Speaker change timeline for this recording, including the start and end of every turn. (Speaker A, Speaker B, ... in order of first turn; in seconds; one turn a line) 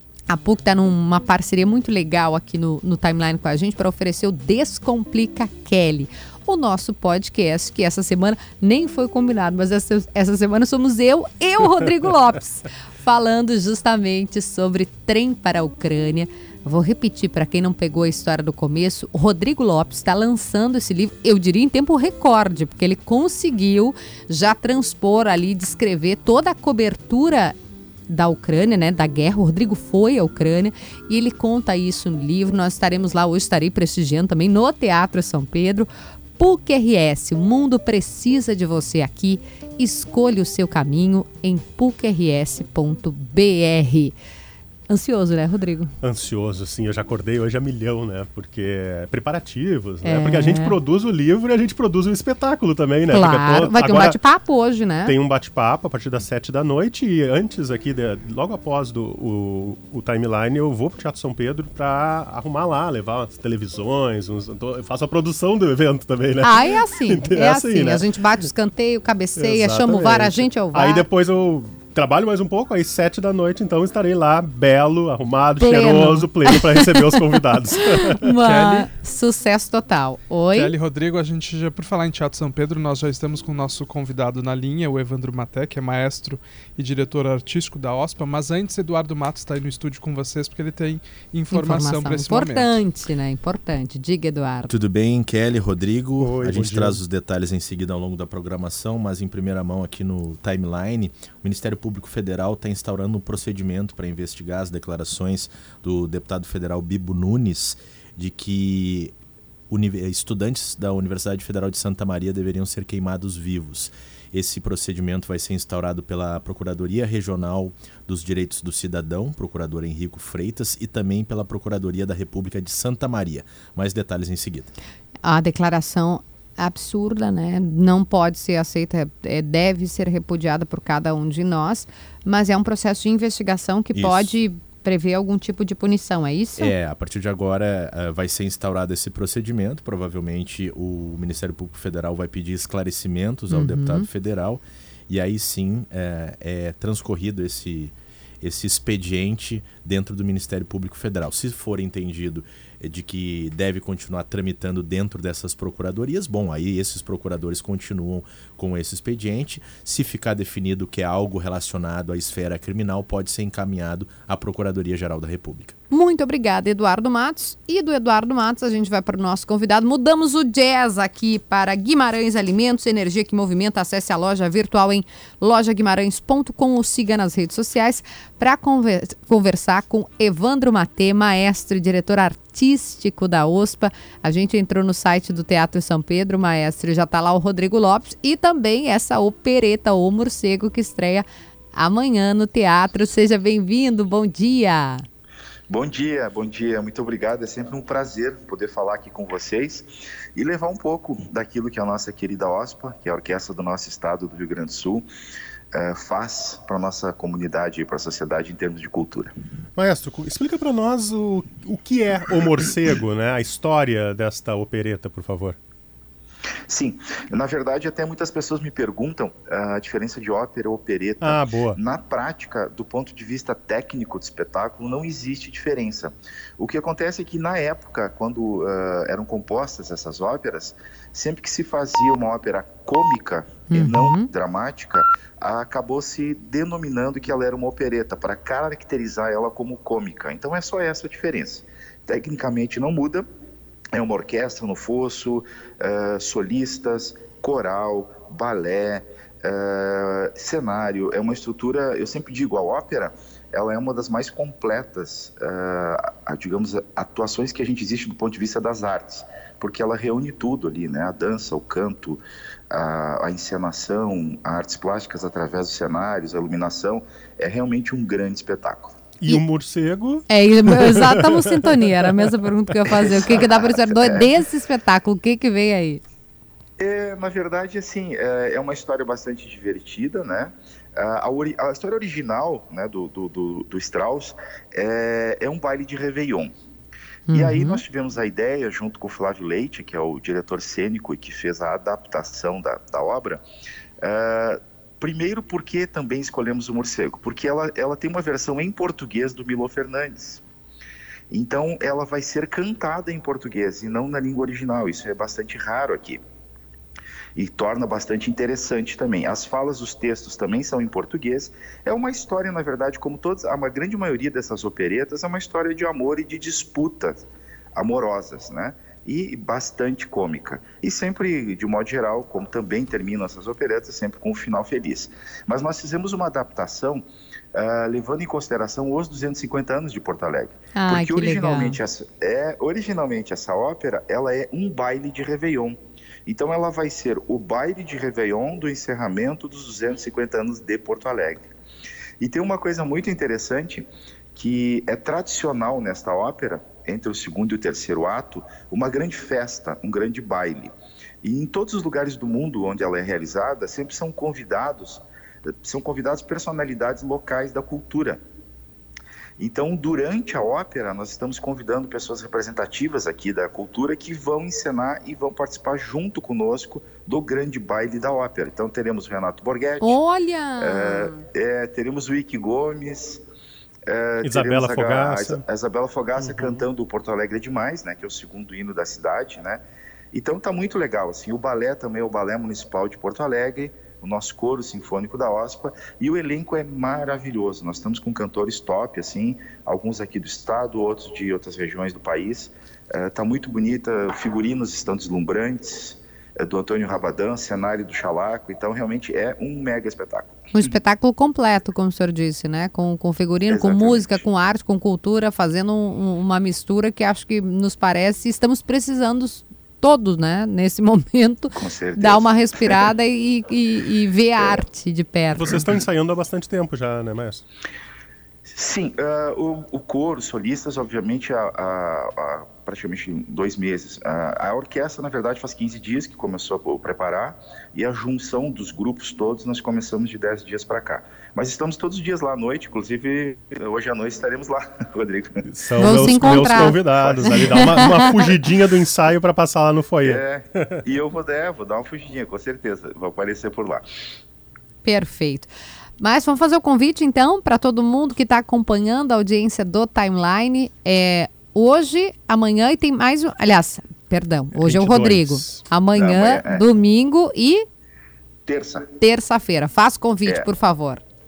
Speaker A: 0.3-27.6
Speaker A: 28.1-35.9
Speaker A: 36.4-44.1
Speaker A: 44.9-45.9
Speaker B: 46.0-54.2
Speaker A: 50.0-50.8
Speaker A: 53.1-55.2
Speaker B: 55.1-68.0
Speaker A: 66.4-71.0
Speaker B: 69.4-78.3
Speaker A: 75.6-77.2
Speaker A: 78.0-80.7
Speaker C: 78.4-78.9
Speaker C: 80.5-92.8
Speaker A: 91.5-94.7
Speaker D: 94.7-109.1
Speaker B: 96.2-97.0
Speaker D: 109.7-124.7
Speaker A: 125.2-136.7
Speaker D: 133.9-134.3
Speaker D: 136.6-165.8
Speaker A: 143.5-144.1
Speaker A: 165.9-195.1
Speaker E: 195.7-205.1
Speaker E: 205.7-209.3
Speaker B: 209.8-215.6
Speaker E: 216.7-243.3
Speaker B: 221.2-221.8
Speaker A: 233.7-234.3
Speaker E: 243.9-268.9
Speaker B: 269.2-272.2
Speaker A: 270.3-276.0
Speaker E: 273.0-274.3
Speaker E: 276.8-286.5
Speaker A: 287.3-287.8
Speaker E: 287.3-293.4
Speaker E: 294.0-300.4
Speaker E: 301.3-306.2
Speaker E: 307.4-327.0
Speaker E: 327.6-341.5
Speaker A: 330.8-331.8
Speaker E: 342.2-350.7
Speaker E: 351.2-355.0
Speaker E: 355.6-358.2
Speaker E: 359.4-370.0
Speaker A: 369.8-371.2
Speaker E: 370.6-373.2
Speaker E: 373.9-400.7
Speaker B: 374.2-375.4
Speaker B: 376.2-376.6
Speaker A: 400.6-415.6
Speaker E: 403.5-404.2
Speaker E: 411.6-412.8
Speaker B: 415.3-417.4
Speaker E: 418.5-438.2
Speaker B: 435.5-440.8
Speaker A: 435.8-438.2
Speaker E: 440.0-443.8
Speaker A: 444.8-457.6
Speaker B: 454.5-455.6
Speaker E: 455.9-456.6
Speaker E: 458.5-458.9
Speaker A: 459.0-461.0